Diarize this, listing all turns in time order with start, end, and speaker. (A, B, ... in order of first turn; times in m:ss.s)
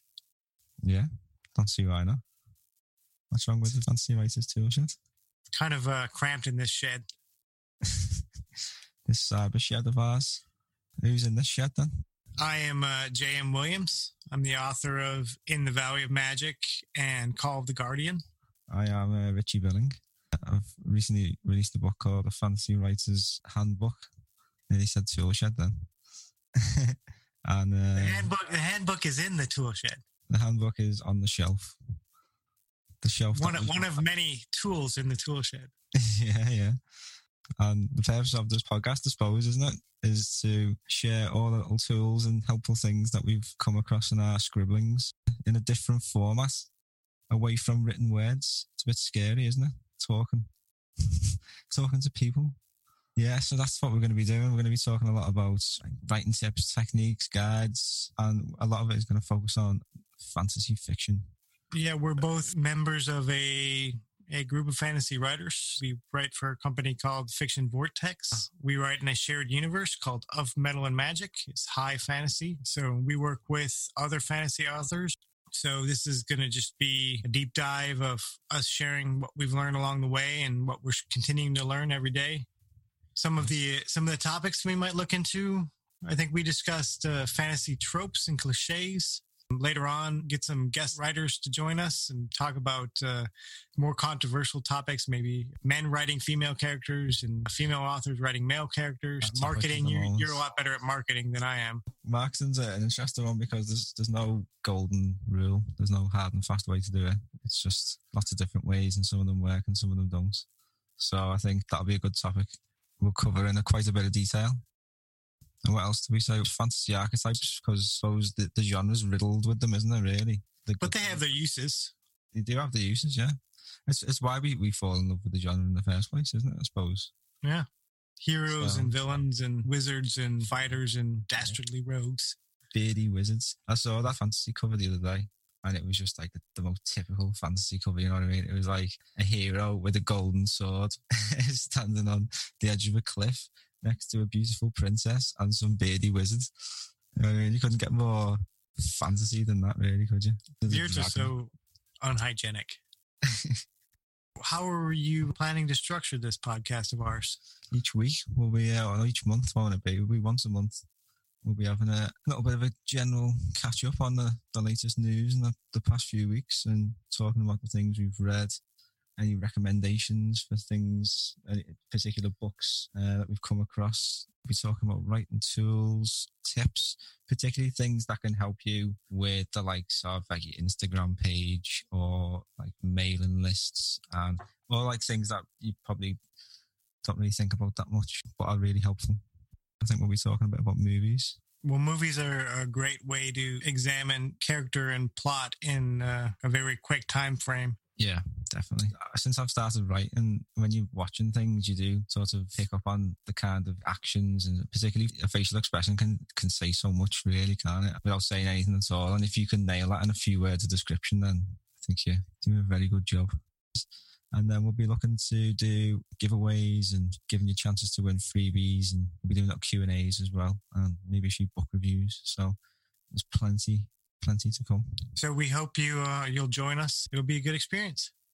0:00.8-0:02.2 A
0:03.3-0:05.0 A
0:05.5-0:07.0 B
0:07.8-0:08.2 A
0:09.1-0:10.4 A
0:11.0-0:11.9 A
0:12.4-0:18.2 B
0:18.7-0:24.1 A
0:24.7-0:25.9 A
0:26.6-0:28.3 A
0:28.0-0:30.0 B
0:30.3-0:31.8 A
0:33.0-0:34.0 A
0:33.3-0:35.7 B
0:36.0-0:36.8 A
0:37.6-0:46.7 A
0:47.3-0:50.5 A
0:51.0-0:52.6 A
0:53.2-1:01.3 A
1:01.7-1:22.5 B
1:23.2-1:41.8 B
1:39.2-1:40.4 A
1:42.0-1:50.4 A
1:51.0-1:54.6 A
1:55.6-2:01.2 A
2:00.8-2:01.9 B
2:02.3-2:03.4 A
2:03.9-2:07.1 A
2:08.2-2:12.4 B
2:08.5-2:09.1 A
2:12.7-2:26.5 A
2:27.2-2:31.3 A
2:30.7-2:32.8 B
2:33.3-2:33.6 A
2:34.4-2:37.4 B
2:37.7-2:40.8 A
2:41.4-2:48.6 A
2:49.2-3:06.2 A
3:07.0-3:09.2 A
3:09.8-3:11.4 A
3:11.6-3:17.8 B
3:18.0-3:42.6 A
3:43.1-3:45.0 A
3:45.2-3:48.1 B